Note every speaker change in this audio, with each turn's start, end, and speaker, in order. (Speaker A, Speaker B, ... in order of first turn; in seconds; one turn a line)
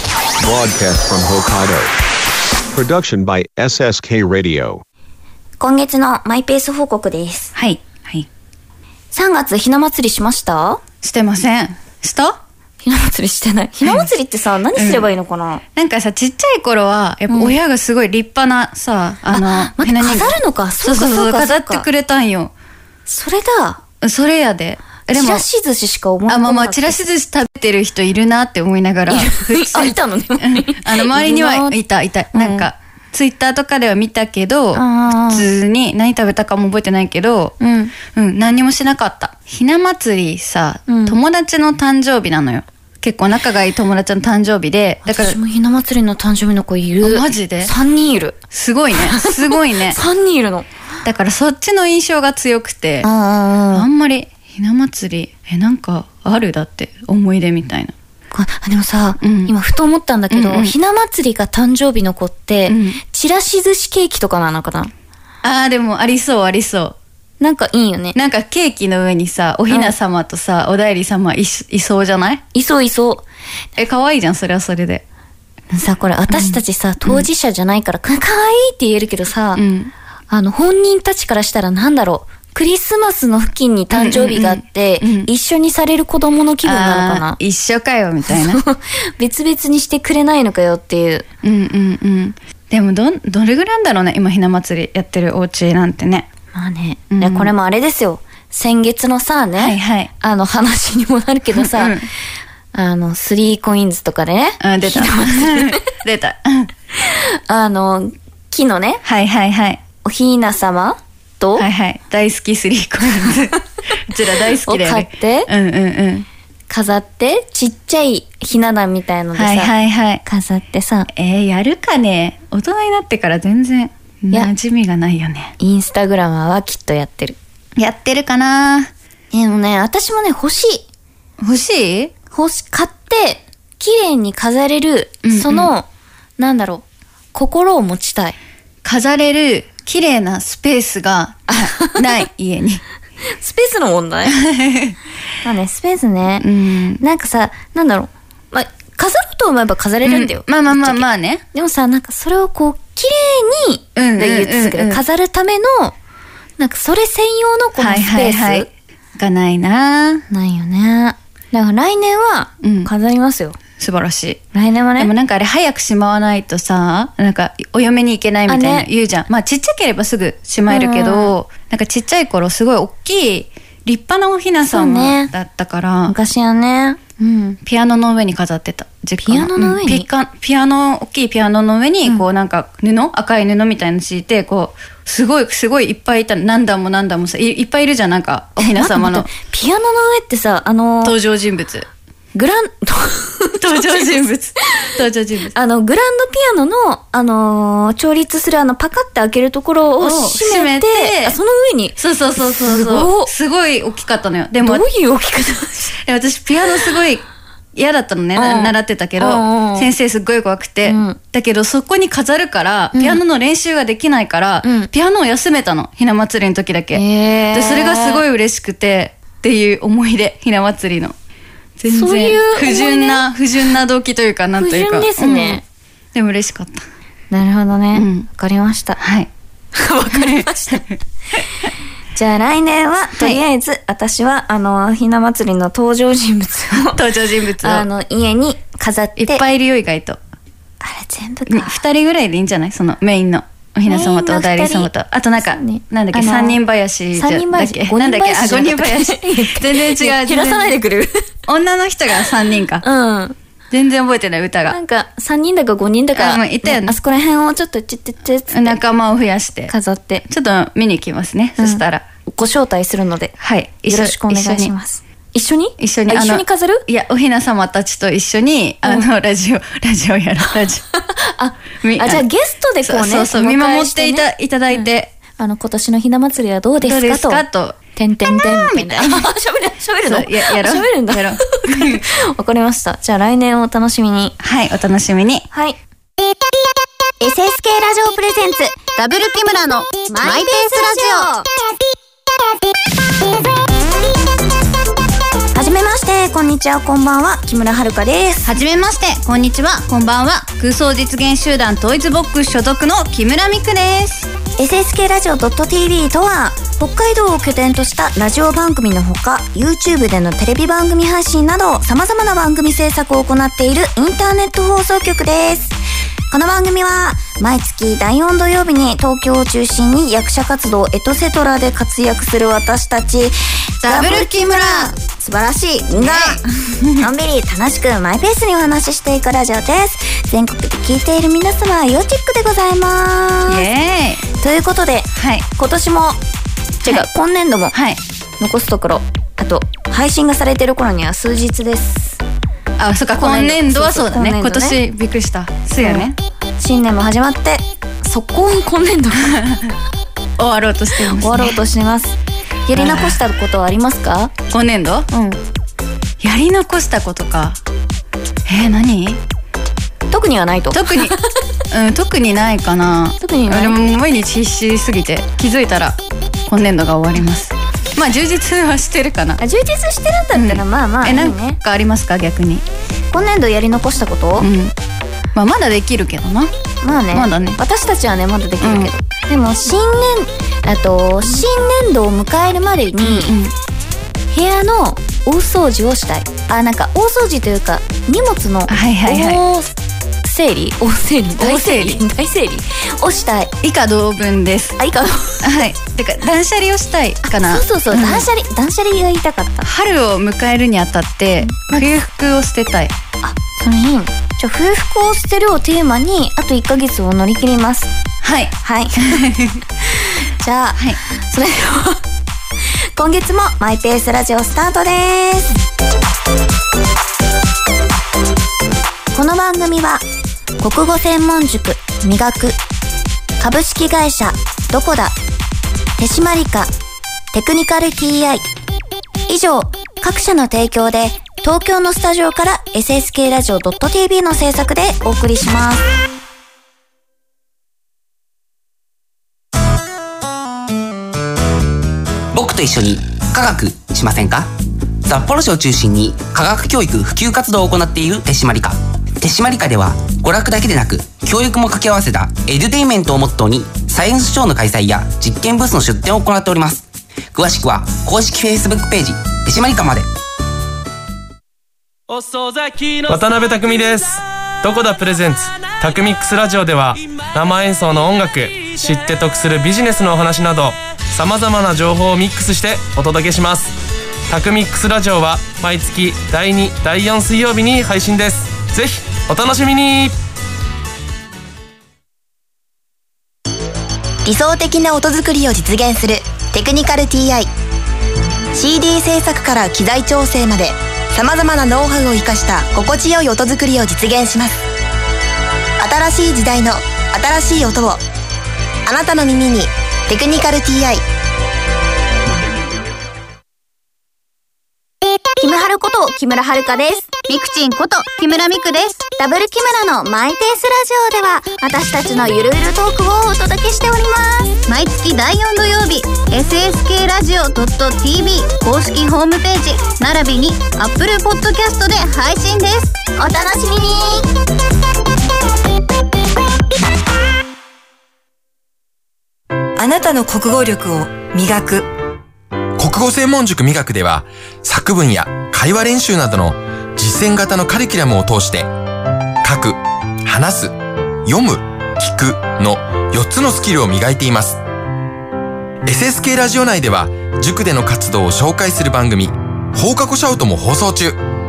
Speaker A: 0.4-1.9
Speaker A: 2.7-4.8
Speaker B: 5.6-7.5
Speaker C: 7.5-8.3
Speaker B: 9.1-10.8
Speaker C: 11.0-12.4
Speaker B: 12.8-15.6
Speaker C: 14.8-15.1
Speaker C: 15.8-22.5
Speaker B: 17.3-17.6
Speaker B: 19.3-21.9
Speaker B: 23.1-23.8
Speaker C: 24.0-25.4
Speaker B: 25.1-27.0
Speaker C: 26.3-45.4
Speaker B: 29.1-31.8
Speaker B: 32.3-32.7
Speaker B: 34.7-35.5
Speaker B: 37.6-37.9
Speaker B: 40.9-41.2
Speaker B: 45.0-48.4
Speaker C: 47.0-47.7
Speaker C: 48.5-50.0
Speaker B: 48.9-50.7
Speaker C: 51.0-53.1
Speaker B: 53.0-53.9
Speaker C: 53.7-57.9
Speaker B: 58.3-64.9
Speaker C: 59.2-59.5
Speaker C: 60.3-60.7
Speaker C: 62.7-63.0
Speaker C: 65.4-67.0
Speaker B: 67.4-68.2
Speaker C: 68.1-72.4
Speaker B: 69.7-69.9
Speaker B: 72.5-73.2
Speaker C: 73.8-75.0
Speaker B: 75.7-79.6
Speaker C: 76.3-77.2
Speaker C: 79.5-79.9
Speaker B: 80.3-87.4
Speaker C: 83.9-85.3
Speaker C: 86.6-88.6
Speaker B: 88.2-91.2
Speaker C: 91.4-96.3
Speaker B: 96.5-102.0
Speaker C: 97.1-97.5
Speaker C: 99.6-100.1
Speaker C: 101.6-102.1
Speaker B: 102.7-105.8
Speaker C: 104.6-106.7
Speaker B: 107.0-109.0
Speaker C: 109.0-109.8
Speaker B: 110.0-111.7
Speaker C: 111.5-116.2
Speaker B: 114.6-115.5
Speaker B: 116.7-119.7
Speaker C: 119.3-120.2
Speaker B: 120.2-121.1
Speaker C: 121.1-125.5
Speaker B: 125.6-127.4
Speaker C: 127.8-128.9
Speaker B: 129.3-130.8
Speaker C: 131.4-132.1
Speaker B: 132.3-135.9
Speaker C: 135.2-135.7
Speaker B: 136.4-138.4
Speaker C: 138.8-142.8
Speaker B: 141.5-142.2
Speaker B: 143.3-144.4
Speaker C: 144.2-144.9
Speaker B: 145.4-146.5
Speaker C: 146.4-147.0
Speaker B: 147.0-155.9
Speaker C: 150.0-151.4
Speaker C: 153.9-155.0
Speaker B: 156.6-158.7
Speaker C: 157.8-160.2
Speaker B: 160.3-163.6
Speaker C: 162.6-162.9
Speaker C: 163.8-164.4
Speaker B: 164.5-165.1
Speaker C: 165.0-176.1
Speaker B: 168.5-168.9
Speaker B: 170.7-171.3
Speaker B: 174.6-175.3
Speaker B: 176.1-177.6
Speaker C: 177.6-189.3
Speaker B: 179.2-180.1
Speaker B: 188.6-191.2
Speaker C: 191.0-191.9
Speaker B: 192.3-194.1
Speaker C: 193.6-195.6
Speaker B: 195.5-203.3
Speaker C: 200.0-201.4
Speaker C: 202.0-204.8
Speaker B: 204.6-206.0
Speaker C: 206.0-221.1
Speaker B: 208.3-209.9
Speaker B: 210.8-211.2
Speaker B: 212.9-213.2
Speaker B: 214.6-214.9
Speaker B: 216.9-218.2
Speaker C: 221.8-225.6
Speaker B: 221.9-223.2
Speaker B: 224.5-225.6
Speaker C: 226.1-226.8
Speaker B: 227.3-229.0
Speaker C: 227.9-228.3
Speaker C: 229.0-229.3
Speaker B: 229.7-230.8
Speaker C: 230.1-230.9
Speaker B: 232.1-237.0
Speaker C: 236.7-237.8
Speaker B: 237.6-239.4
Speaker C: 239.2-240.2
Speaker B: 240.8-241.8
Speaker C: 241.5-250.7
Speaker B: 243.8-246.6
Speaker B: 247.1-251.3
Speaker C: 251.5-252.8
Speaker B: 252.8-253.4
Speaker C: 253.7-254.8
Speaker B: 254.7-258.8
Speaker C: 256.1-256.9
Speaker C: 258.5-259.7
Speaker B: 259.7-260.2
Speaker C: 260.3-262.0
Speaker B: 261.6-266.8
Speaker C: 263.4-264.7
Speaker C: 265.8-270.8
Speaker B: 270.9-277.4
Speaker C: 271.8-272.2
Speaker C: 272.8-275.1
Speaker C: 276.8-277.8
Speaker B: 277.9-284.4
Speaker C: 278.3-279.2
Speaker C: 280.0-282.0
Speaker C: 284.4-285.5
Speaker B: 285.5-285.8
Speaker B: 287.2-288.9
Speaker C: 289.0-291.3
Speaker B: 290.0-291.5
Speaker B: 295.5-298.5
Speaker C: 298.4-304.3
Speaker B: 304.6-315.8
Speaker B: 316.3-333.6
Speaker C: 323.8-324.9
Speaker C: 325.9-327.1
Speaker C: 333.5-334.2
Speaker B: 334.4-336.2
Speaker C: 335.1-335.4
Speaker B: 336.8-337.7
Speaker C: 337.7-338.0
Speaker B: 338.4-342.2
Speaker C: 342.8-346.1
Speaker B: 343.1-344.8
Speaker B: 345.8-349.4
Speaker C: 349.2-349.7
Speaker C: 350.4-351.6
Speaker B: 351.1-352.1
Speaker B: 352.7-354.3
Speaker C: 352.8-353.2
Speaker C: 354.5-355.1
Speaker B: 355.1-355.4
Speaker C: 356.2-357.6
Speaker C: 358.4-359.2
Speaker B: 360.1-361.3
Speaker C: 360.7-361.2
Speaker C: 361.7-369.4
Speaker B: 363.2-363.8
Speaker B: 369.4-371.6
Speaker C: 370.3-372.6
Speaker B: 373.1-374.5
Speaker C: 374.4-374.7
Speaker C: 375.3-376.5
Speaker B: 376.8-383.3
Speaker C: 377.1-377.6
Speaker C: 378.6-378.9
Speaker C: 383.0-383.5
Speaker B: 384.3-393.5
Speaker C: 388.7-389.4
Speaker C: 391.4-392.0
Speaker C: 393.6-394.8
Speaker B: 394.8-395.6
Speaker C: 395.4-398.2
Speaker B: 397.2-399.7
Speaker C: 399.6-402.9
Speaker B: 401.4-401.9
Speaker B: 403.2-407.9
Speaker C: 408.2-409.6
Speaker B: 408.6-409.3
Speaker B: 409.9-412.0
Speaker B: 412.6-415.5
Speaker B: 419.1-420.0
Speaker B: 420.6-422.6
Speaker B: 423.4-425.2
Speaker B: 426.0-426.7
Speaker B: 427.3-428.5
Speaker B: 429.3-435.9
Speaker D: 442.3-444.5
Speaker D: 445.1-460.1
Speaker E: 462.1-473.7
Speaker E: 474.3-480.1
Speaker F: 484.2-487.5
Speaker F: 488.5-494.6
Speaker F: 495.8-498.0
Speaker F: 498.9-501.0
Speaker B: 505.4-507.2
Speaker C: 507.3-508.6
Speaker B: 509.0-514.6
Speaker C: 514.7-522.9
Speaker B: 523.1-524.3
Speaker G: 529.8-531.9
Speaker H: 532.8-538.7
Speaker H: 539.4-544.6
Speaker H: 545.8-551.2